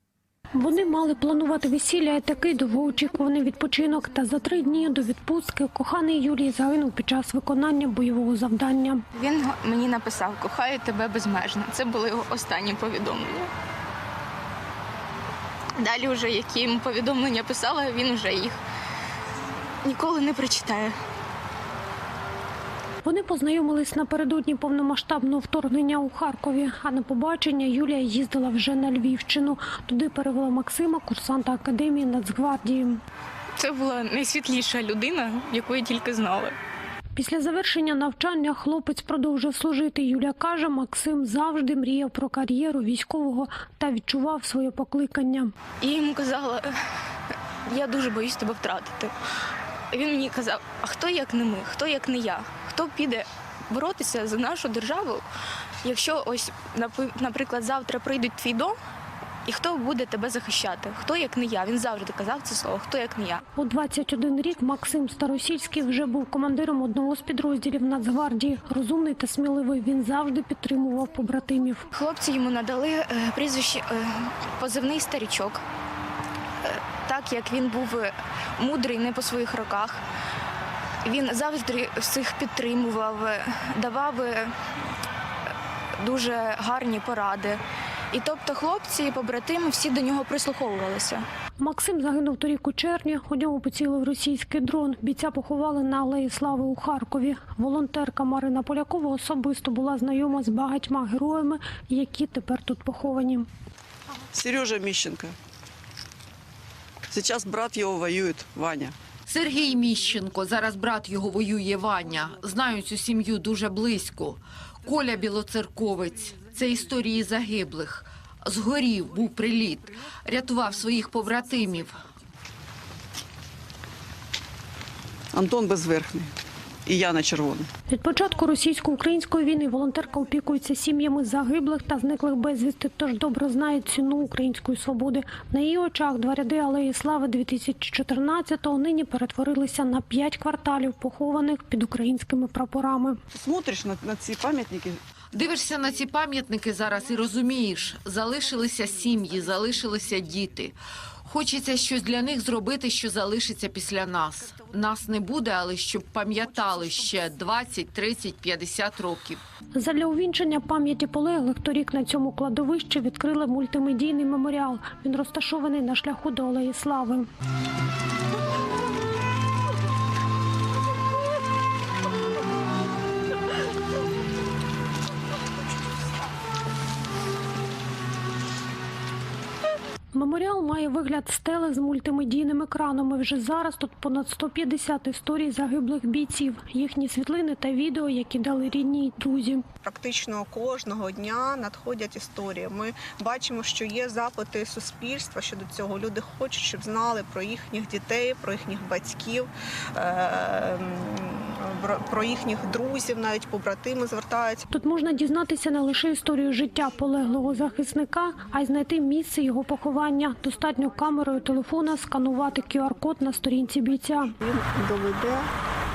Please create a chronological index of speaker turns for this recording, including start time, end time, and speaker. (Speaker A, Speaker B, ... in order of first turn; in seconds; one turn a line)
Speaker A: 0.5-9.0
Speaker B: 9.1-13.5
Speaker B: 15.8-18.6
Speaker B: 19.8-20.9
Speaker A: 23.0-33.0
Speaker B: 33.6-36.5
Speaker A: 37.1-45.5
Speaker B: 45.8-46.7
Speaker B: 47.6-49.1
Speaker B: 49.9-55.2
Speaker B: 55.8-58.8
Speaker B: 59.5-63.4
Speaker A: 63.5-71.8
Speaker B: 71.9-75.6
Speaker B: 76.6-80.0
Speaker B: 81.0-84.5
Speaker B: 86.0-87.6
Speaker B: 88.1-91.2
Speaker A: 91.6-103.5
Speaker C: 104.3-105.3
Speaker C: 107.1-109.0
Speaker D: 109.2-122.0
Speaker C: 125.3-126.3
Speaker C: 126.8-127.7
Speaker A: 127.9-143.2
Speaker C: 143.3-145.0
Speaker D: 145.3-159.4
Speaker A: 159.7-167.3
Speaker A: 180.1-189.6
Speaker E: 189.8-204.6
Speaker A: 204.7-214.3
Speaker E: 214.4-215.5